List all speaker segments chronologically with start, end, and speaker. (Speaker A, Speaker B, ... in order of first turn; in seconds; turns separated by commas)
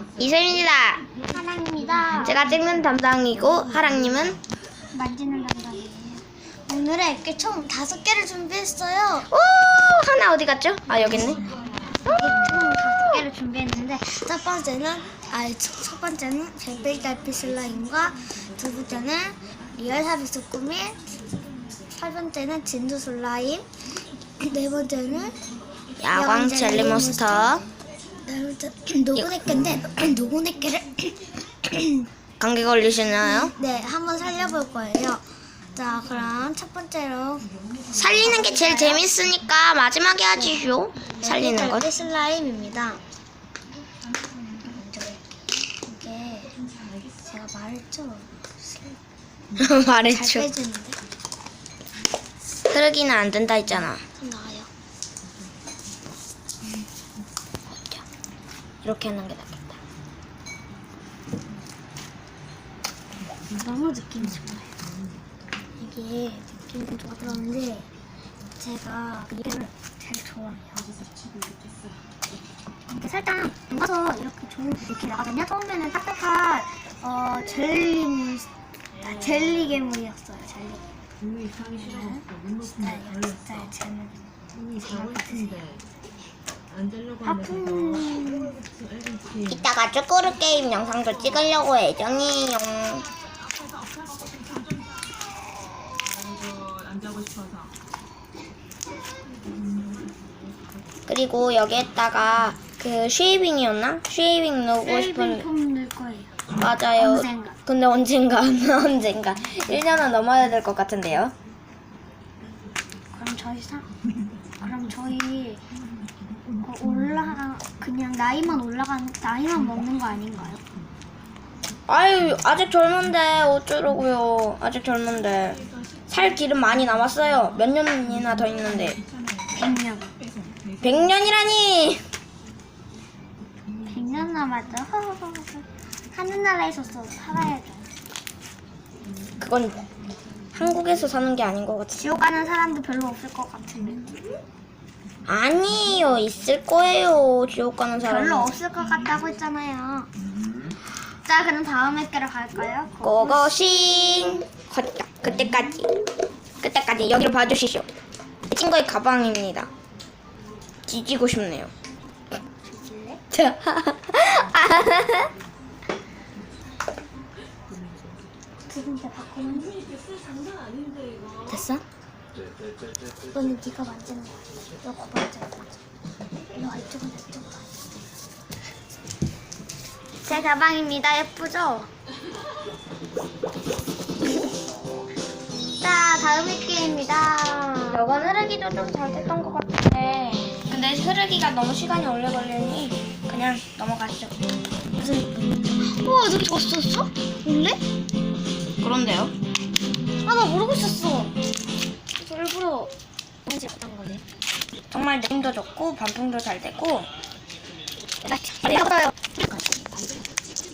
Speaker A: 0.2-1.1, Speaker B: 1.3-2.4, Speaker A: 2.2-4.4, Speaker B: 4.9-9.3, Speaker A: 9.3-11.4, Speaker B: 11.9-21.0, Speaker B: 21.9-23.6, Speaker B: 24.4-25.3, Speaker A: 26.0-27.6, Speaker B: 26.1-27.6, Speaker B: 28.2-32.1, Speaker A: 29.1-29.5, Speaker A: 32.4-33.5, Speaker B: 33.2-35.2, Speaker B: 35.7-37.5, Speaker A: 37.9-41.9, Speaker B: 38.2-39.1, Speaker B: 41.2-43.0, Speaker B: 44.6-45.2, Speaker B: 45.8-46.5, Speaker B: 47.2-49.0, Speaker A: 49.6-50.5, Speaker B: 50.1-51.0, Speaker A: 52.7-54.0, Speaker B: 54.2-54.7, Speaker A: 58.8-59.8, Speaker B: 63.5-64.7, Speaker B: 65.8-67.9, Speaker B: 68.6-70.9, Speaker B: 72.9-78.5, Speaker B: 79.0-80.9, Speaker B: 81.5-85.7, Speaker B: 87.2-88.6, Speaker A: 89.5-93.1, Speaker A: 101.1-105.5, Speaker B: 104.8-106.3, Speaker A: 106.6-111.3, Speaker B: 107.0-107.6, Speaker B: 113.1-113.9, Speaker B: 114.6-115.6, Speaker B: 116.6-120.6, Speaker A: 121.9-129.0, Speaker B: 129.6-130.1, Speaker A: 130.8-132.0, Speaker B: 133.8-137.9, Speaker A: 139.4-139.8, Speaker A: 140.5-142.0, Speaker B: 141.9-144.1, Speaker A: 145.3-148.5, Speaker B: 148.0-150.1, Speaker B: 150.9-153.5, Speaker A: 153.0-155.9, Speaker A: 156.6-157.9, Speaker A: 158.5-159.7, Speaker A: 160.9-161.7, Speaker B: 162.8-163.2, Speaker A: 163.3-165.3, Speaker B: 168.7-169.8, Speaker B: 171.5-171.8, Speaker B: 173.3-175.8, Speaker B: 176.5-177.6, Speaker B: 180.2-181.9, Speaker B: 185.8-188.0, Speaker A: 187.9-194.3, Speaker B: 194.9-197.8, Speaker A: 198.8-199.3, Speaker B: 200.2-201.3, Speaker A: 202.2-202.9, Speaker B: 203.4-204.2, Speaker A: 204.9-207.1, Speaker B: 208.3-209.4, Speaker A: 208.3-208.9